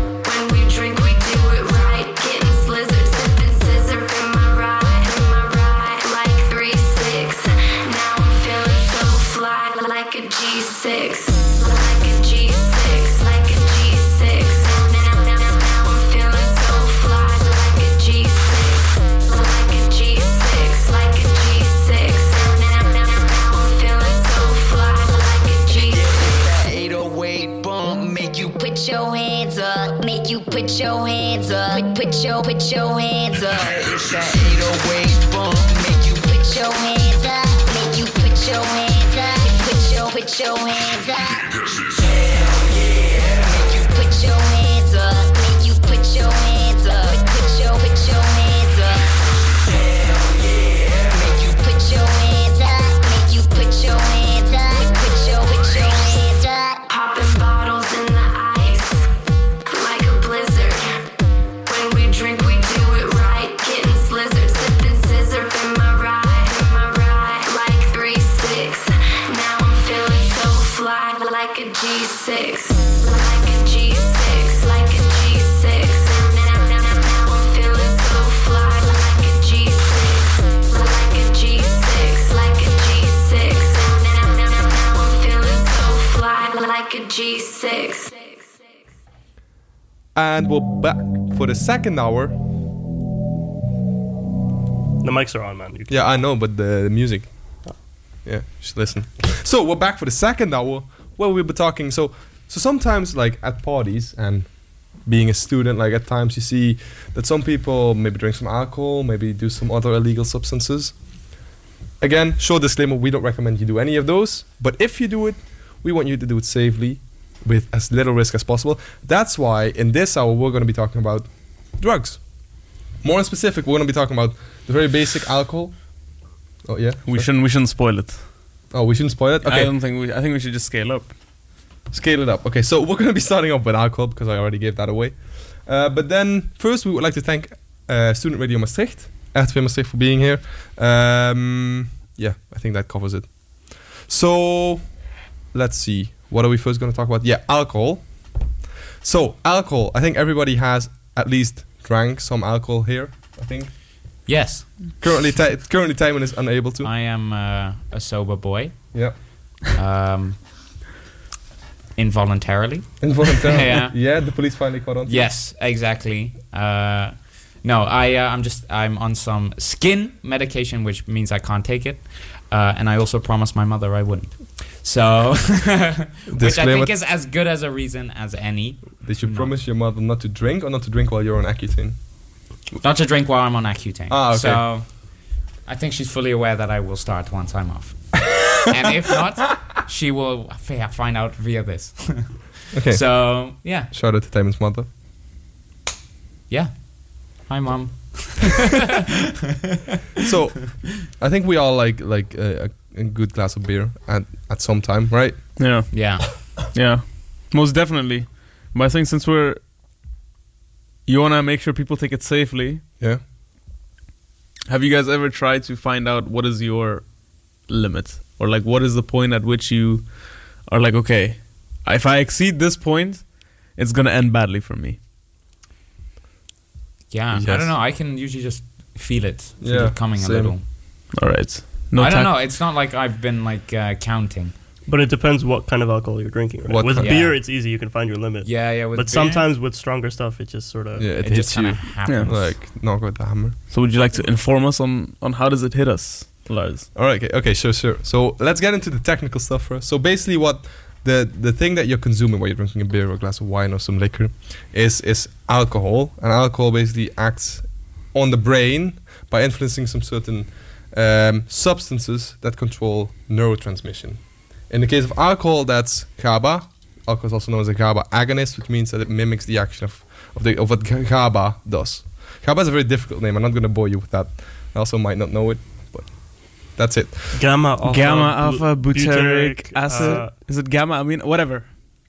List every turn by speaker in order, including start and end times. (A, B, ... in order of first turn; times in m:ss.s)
0:00.2-0:26.0 A
0:25.7-0:28.5 B
0:28.5-0:33.7 C
0:33.7-0:36.2 B
0:36.2-0:41.5 C
0:43.4-0:49.1 C
0:51.0-0:56.8 C
0:56.9-0:59.1 A
0:59.7-1:01.0 A
1:01.7-1:28.7 A
1:30.2-1:32.3 D
1:35.0-1:35.9 E
1:35.9-1:37.3 D
1:38.2-1:44.5 D
1:45.0-1:50.9 D
1:52.0-2:02.2 D
2:03.0-2:05.8 D
2:06.6-2:07.3 D
2:07.0-2:08.3 F
2:08.7-2:09.7 D
2:09.4-2:11.2 F
2:11.9-2:23.3 D
2:24.0-2:24.8 D
2:25.5-2:28.0 D
2:29.0-2:33.7 D
2:34.3-2:34.8 G
2:35.0-2:36.9 D
2:36.8-2:38.9 G
2:39.7-2:40.4 G
2:42.0-2:44.0 G
2:43.0-2:45.3 D
2:45.0-2:59.5 G
2:56.3-2:56.9 D
2:59.0-3:02.0 D
3:02.8-3:05.0 G
3:04.1-3:04.7 D
3:05.7-3:13.9 G
3:12.7-3:14.9 D
3:16.5-3:18.8 G
3:20.2-3:25.4 D
3:25.6-3:29.6 F
3:25.9-3:26.2 G
3:31.0-3:32.8 F
3:34.7-3:45.0 F
3:47.1-3:50.6 G
3:47.3-3:47.8 D
3:49.6-3:50.5 D
3:51.1-3:52.5 F
3:52.0-3:54.5 G
3:54.9-4:01.1 E
3:56.7-3:57.3 D
3:57.0-3:57.4 G
3:58.4-3:59.5 G
4:01.0-4:03.6 D
4:01.2-4:02.6 G
4:02.1-4:02.3 F
4:03.7-4:06.9 F
4:06.9-4:37.4 D
4:37.4-4:40.3 E
4:37.8-4:41.8 F